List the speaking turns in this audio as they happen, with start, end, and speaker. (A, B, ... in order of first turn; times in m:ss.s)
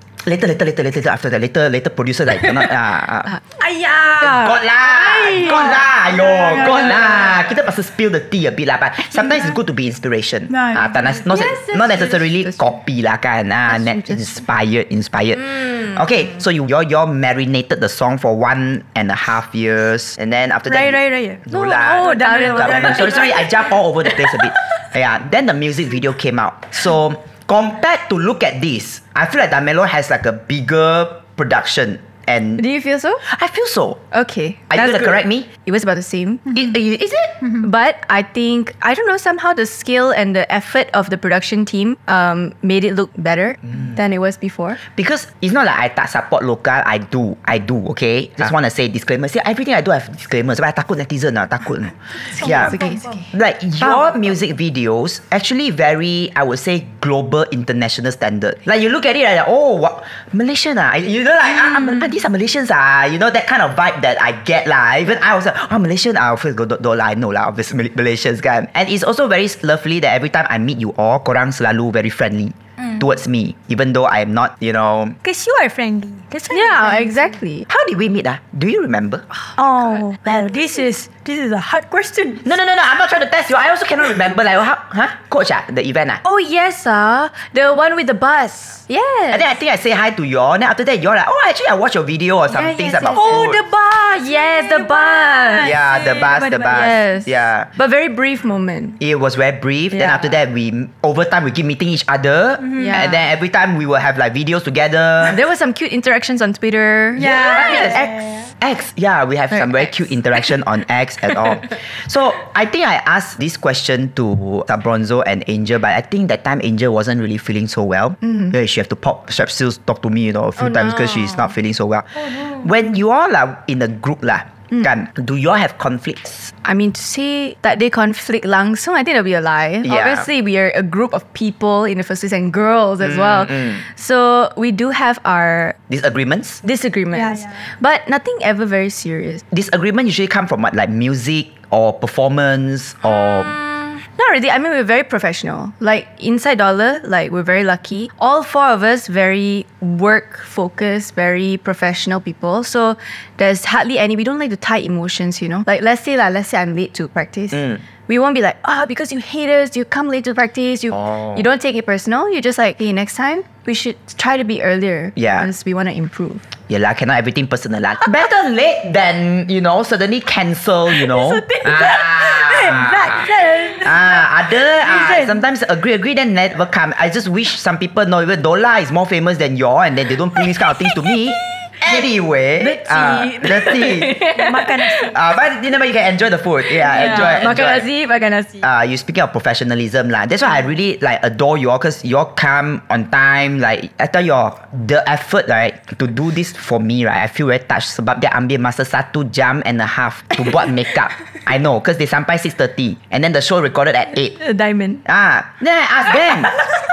0:00.2-0:03.3 A
0:03.6-0:04.3 B
0:03.8-0:07.0 C
0:04.2-0:32.6 A
0:06.3-0:07.1 B
0:10.5-0:10.9 B
0:11.3-0:12.7 C
0:13.7-0:14.2 C
0:20.7-0:21.4 B
0:21.5-0:23.5 C
0:22.0-0:23.5 B
0:32.6-0:33.2 C
0:33.2-0:34.0 A
0:34.1-0:36.4 C
0:34.7-0:35.5 A
0:36.5-0:37.4 A
0:37.6-0:44.8 C
0:44.9-0:52.8 A
0:52.3-0:53.2 C
0:52.4-0:53.2 B
0:53.3-1:15.2 A
1:15.2-1:17.3 B
1:16.5-1:17.7 C
1:17.7-1:19.2 A
1:19.6-1:22.5 B
1:22.4-1:26.2 A
1:26.2-1:29.5 C
1:29.3-1:33.6 A
1:32.5-1:33.6 C
1:33.1-1:37.0 B
1:34.1-1:35.8 C
1:35.6-1:37.7 A
1:36.7-1:39.0 C
1:39.0-1:45.4 A
1:39.9-1:40.2 C
1:42.6-1:42.9 B
1:42.8-1:43.2 C
1:45.3-1:48.1 C
1:47.2-1:48.5 B
1:47.2-1:48.0 A
1:48.6-2:06.5 A
1:58.2-1:58.5 C
2:00.6-2:01.5 C
2:06.6-2:15.8 C
2:09.8-2:10.3 A
2:13.0-2:13.8 A
2:15.9-2:16.6 A
2:16.6-2:19.4 C
2:17.2-2:17.6 B
2:19.5-2:23.6 A
2:23.4-2:46.4 C
2:37.5-2:37.8 A
2:40.9-2:41.4 A
2:45.2-2:45.5 A
2:46.7-2:53.3 A
2:51.0-2:54.2 B
2:53.8-3:04.2 A
2:54.8-2:55.4 B
3:02.6-3:04.7 C
3:04.2-3:05.2 B
3:05.1-3:07.9 A
3:06.7-3:08.7 C
3:08.6-3:24.4 A
3:24.4-3:25.0 C
3:25.0-3:26.5 A